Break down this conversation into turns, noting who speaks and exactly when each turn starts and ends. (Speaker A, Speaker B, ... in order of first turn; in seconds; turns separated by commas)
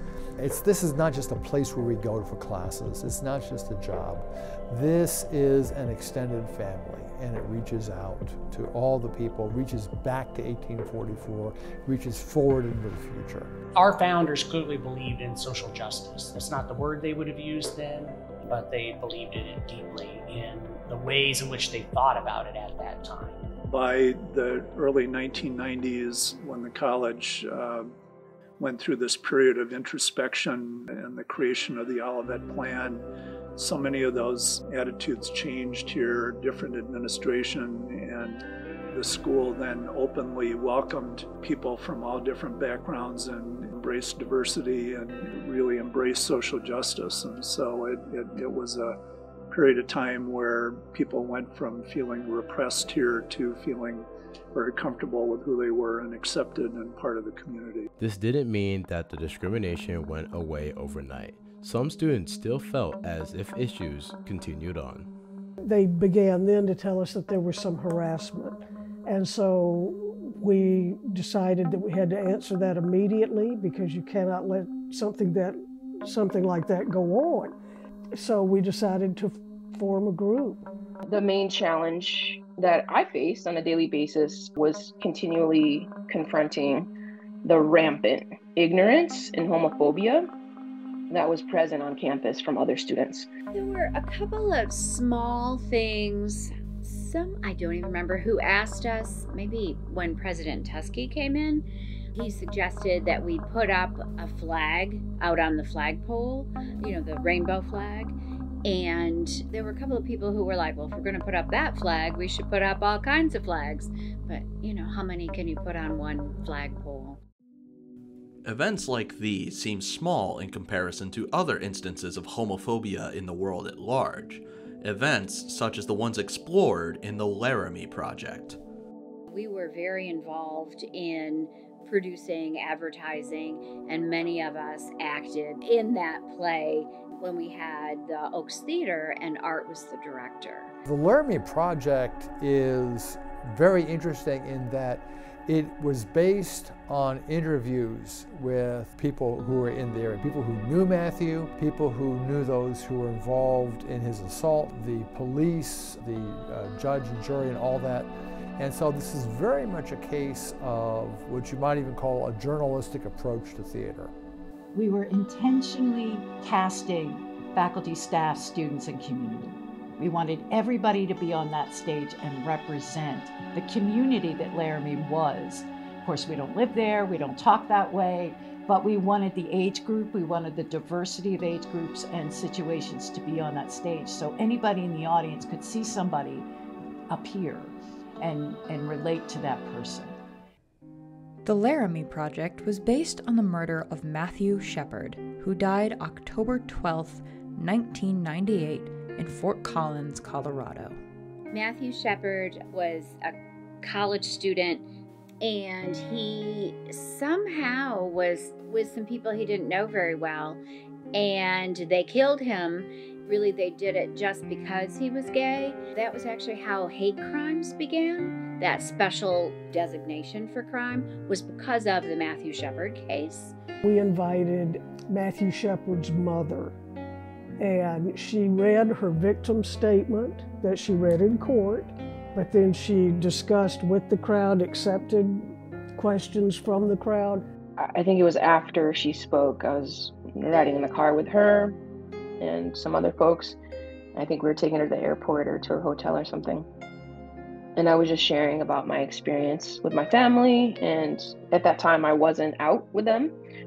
Speaker A: 0.4-13.5, Speaker B: 13.8-23.4, Speaker C: 23.7-27.9, Speaker C: 28.6-33.0, Speaker C: 33.5-48.9, Speaker C: 49.5-57.9, Speaker D: 58.0-65.1, Speaker E: 65.6-77.5, Speaker E: 78.1-80.6, Speaker F: 81.0-86.9, Speaker F: 87.4-90.3, Speaker F: 91.1-93.3, Speaker G: 93.5-117.2, Speaker H: 118.4-128.6, Speaker G: 129.3-140.7, Speaker A: 140.8-164.1, Speaker I: 164.7-186.5, Speaker I: 187.1-190.2, Speaker J: 191.4-201.0, Speaker G: 201.5-204.8, Speaker G: 205.4-210.6, Speaker G: 211.1-223.5, Speaker E: 223.8-226.7, Speaker E: 227.6-237.4, Speaker F: 237.8-241.8, Speaker F: 242.4-243.6, Speaker F: 244.1-246.7, Speaker F: 247.8-253.3